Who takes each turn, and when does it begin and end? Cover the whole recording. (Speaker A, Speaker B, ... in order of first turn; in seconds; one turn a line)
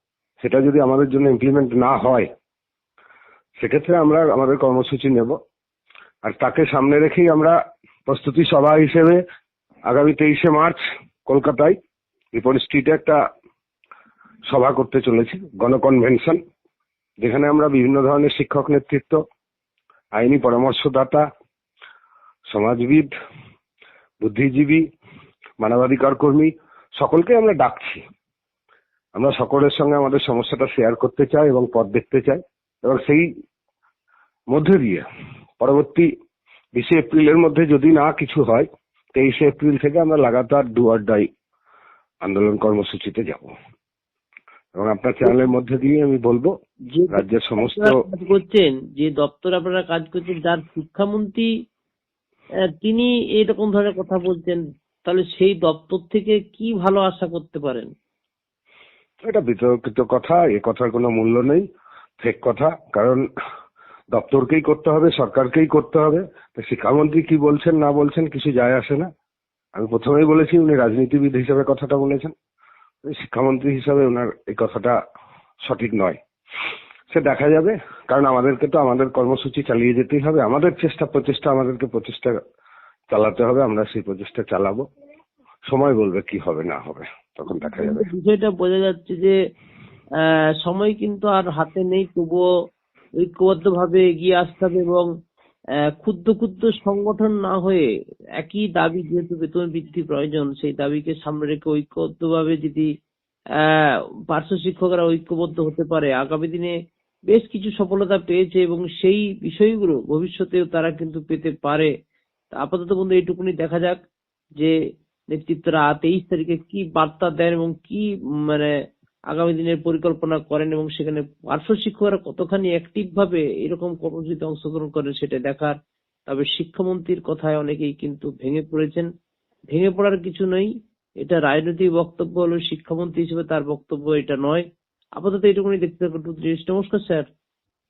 Speaker A: 0.4-2.3
Speaker A: 3.6-5.4
Speaker A: 6.2-9.2
Speaker A: 9.9-11.8
Speaker A: 12.3-13.2
Speaker A: 14.5-16.4
Speaker A: 17.2-19.2
Speaker A: 20.1-21.3
Speaker A: 22.5-23.1
Speaker A: 24.2-24.8
Speaker A: 25.6-28.0
Speaker A: 29.1-33.3
Speaker A: 34.5-35.0
Speaker A: 35.6-36.1
Speaker A: 36.7-41.3
Speaker A: 42.2-43.5
Speaker A: 44.8-46.5
Speaker B: 46.9-51.5
Speaker A: 47.1-48.0
Speaker B: 52.8-57.9
Speaker A: 59.2-61.6
Speaker A: 62.2-63.2
Speaker A: 64.1-69.1
Speaker A: 69.8-72.3
Speaker A: 73.0-75.0
Speaker A: 75.6-76.2
Speaker A: 77.1-82.4
Speaker A: 83.1-84.8
Speaker A: 85.7-88.1
Speaker B: 87.6-89.3
Speaker B: 90.2-92.5
Speaker B: 93.2-95.1
Speaker B: 96.0-97.8
Speaker B: 98.4-102.8
Speaker B: 103.6-106.7
Speaker B: 107.3-111.9
Speaker B: 112.5-114.0
Speaker B: 115.3-118.7
Speaker B: 119.3-125.7
Speaker B: 126.3-129.1
Speaker B: 129.7-130.7
Speaker B: 131.2-134.6
Speaker B: 135.2-137.3